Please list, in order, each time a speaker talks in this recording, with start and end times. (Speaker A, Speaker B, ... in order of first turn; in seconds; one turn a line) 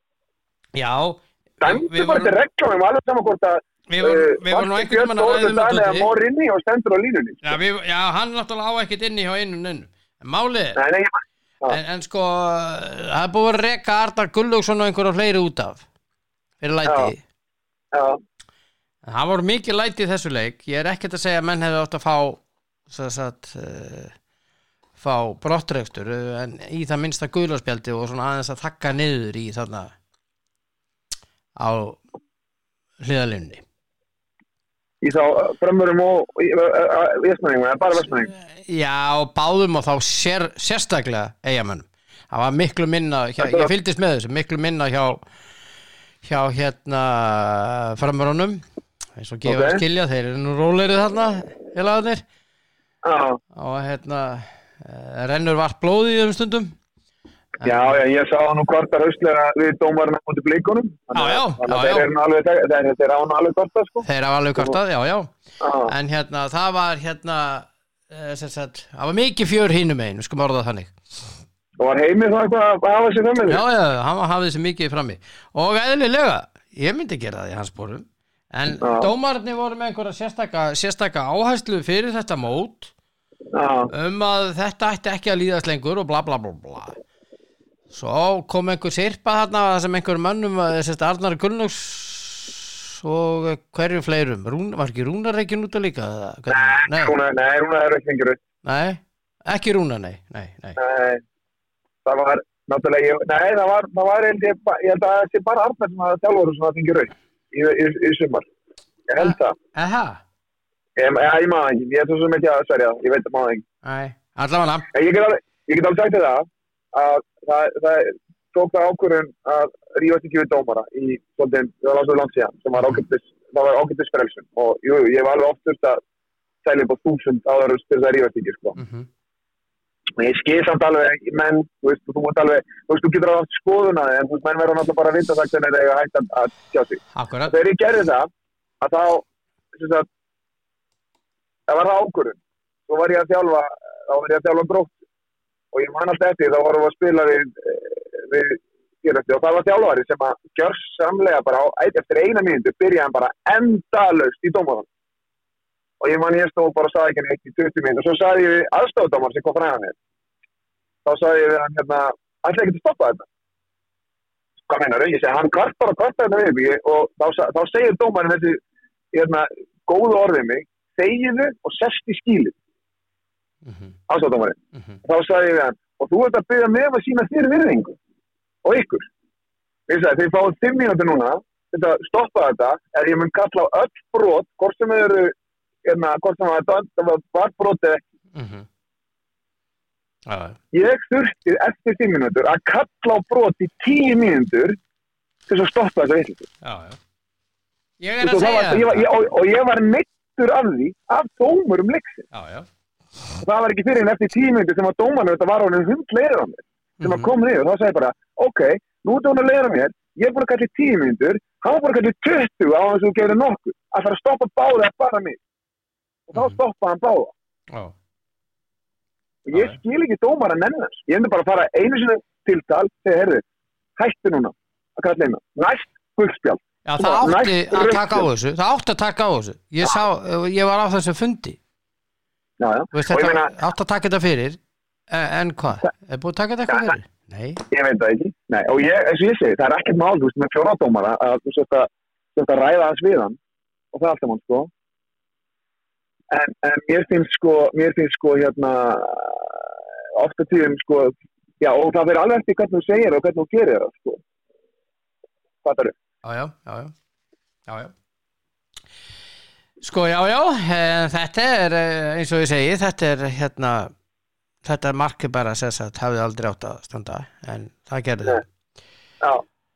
Speaker A: 0.8-2.3
Speaker B: 1.6-7.6
Speaker A: 3.9-6.1
Speaker A: 7.4-10.8
Speaker B: 10.8-11.8
Speaker A: 11.7-15.8
Speaker A: 16.6-17.2
Speaker B: 16.9-17.1
Speaker B: 17.9-18.2
Speaker A: 19.1-24.1
Speaker A: 25.0-29.9
Speaker A: 31.6-32.0
Speaker A: 33.0-33.6
Speaker B: 35.0-38.3
Speaker A: 38.4-45.2
Speaker B: 43.4-43.7
Speaker A: 46.2-48.6
Speaker A: 49.2-52.2
Speaker B: 49.5-49.8
Speaker B: 53.0-53.4
Speaker A: 53.5-56.7
Speaker A: 57.6-58.0
Speaker B: 57.6-64.0
Speaker A: 61.1-62.1
Speaker A: 64.0-65.3
Speaker B: 65.6-65.9
Speaker A: 65.9-71.0
Speaker B: 71.8-73.6
Speaker A: 73.5-82.9
Speaker B: 78.8-79.1
Speaker B: 83.5-83.9
Speaker A: 83.9-87.0
Speaker A: 87.9-97.2
Speaker B: 96.5-98.4
Speaker A: 98.6-100.8
Speaker B: 100.8-101.2
Speaker B: 102.0-108.5
Speaker B: 109.1-109.6
Speaker A: 109.2-110.2
Speaker B: 111.0-113.6
Speaker A: 113.8-114.9
Speaker B: 114.9-126.0
Speaker B: 126.6-128.8
Speaker A: 128.8-129.1
Speaker B: 130.2-138.3
Speaker A: 137.1-137.5
Speaker B: 138.8-140.1
Speaker B: 141.7-144.9
Speaker B: 145.7-154.9
Speaker B: 156.0-160.0
Speaker B: 161.1-163.3
Speaker B: 164.7-168.6
Speaker B: 169.1-172.6
Speaker A: 173.7-173.9
Speaker B: 174.1-178.0
Speaker B: 178.6-179.1
Speaker B: 179.9-188.0
Speaker A: 188.3-188.7
Speaker A: 190.3-190.6
Speaker B: 190.7-194.8
Speaker B: 195.5-196.5
Speaker A: 196.6-197.0
Speaker A: 198.0-199.1
Speaker B: 198.2-202.3
Speaker A: 202.3-202.7
Speaker B: 203.4-215.4
Speaker A: 207.0-207.3
Speaker B: 216.3-217.3
Speaker B: 219.4-223.4
Speaker A: 219.5-219.8
Speaker B: 224.0-228.3
Speaker A: 226.9-231.6
Speaker B: 232.6-233.5
Speaker A: 232.9-234.6
Speaker A: 235.1-237.6
Speaker B: 237.7-243.4
Speaker B: 243.9-244.7
Speaker B: 246.3-254.2
Speaker B: 255.6-255.9
Speaker A: 256.2-256.9
Speaker A: 257.7-257.9
Speaker A: 259.8-263.9
Speaker A: 264.6-268.4